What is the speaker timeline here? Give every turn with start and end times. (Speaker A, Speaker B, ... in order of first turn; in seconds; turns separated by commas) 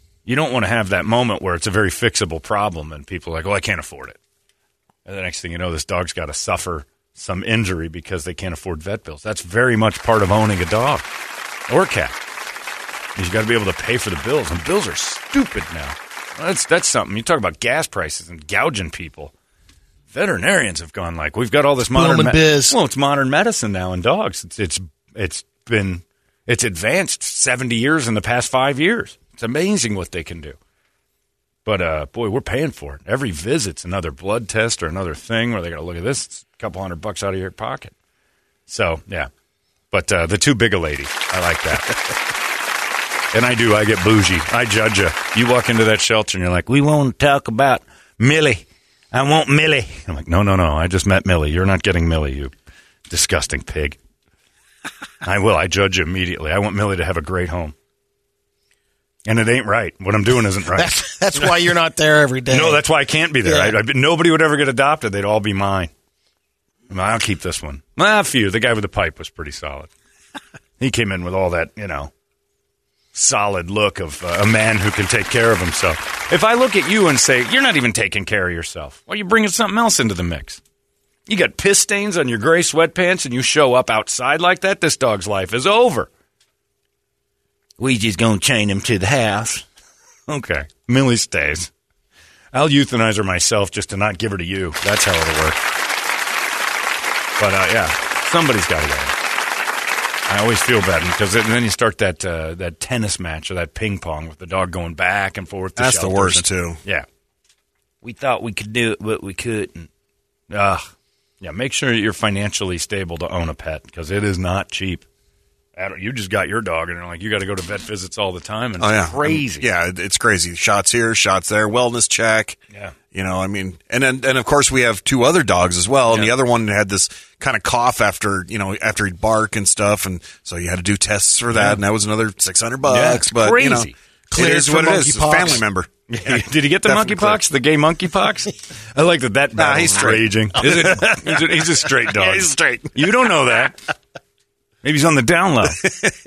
Speaker A: 0.2-4.2, Speaker A: 5.0-11.0, Speaker A: 11.7-12.1, Speaker A: 13.2-19.3, Speaker A: 20.1-30.6, Speaker B: 21.9-22.8, Speaker A: 31.6-37.9, Speaker A: 38.7-39.3, Speaker A: 39.9-42.0, Speaker A: 43.3-52.5, Speaker A: 53.1-54.0, Speaker A: 55.2-57.7, Speaker A: 59.2-61.6, Speaker B: 60.7-62.8, Speaker A: 62.5-65.9, Speaker B: 63.4-63.8, Speaker A: 66.9-69.9, Speaker A: 70.8-72.1, Speaker A: 73.1-80.6, Speaker A: 81.3-86.1, Speaker A: 87.8-89.6, Speaker A: 90.3-91.7, Speaker A: 92.5-95.6, Speaker A: 97.4-99.1, Speaker A: 100.3-107.0, Speaker C: 105.8-106.8, Speaker A: 108.0-109.9, Speaker A: 110.5-110.9, Speaker A: 111.4-115.0, Speaker A: 115.8-119.7, Speaker C: 118.8-122.6, Speaker C: 123.1-137.4, Speaker A: 131.5-131.8, Speaker A: 132.8-133.9, Speaker B: 134.3-135.6, Speaker A: 136.1-143.8, Speaker C: 139.5-143.3, Speaker A: 144.8-145.9, Speaker C: 145.8-146.1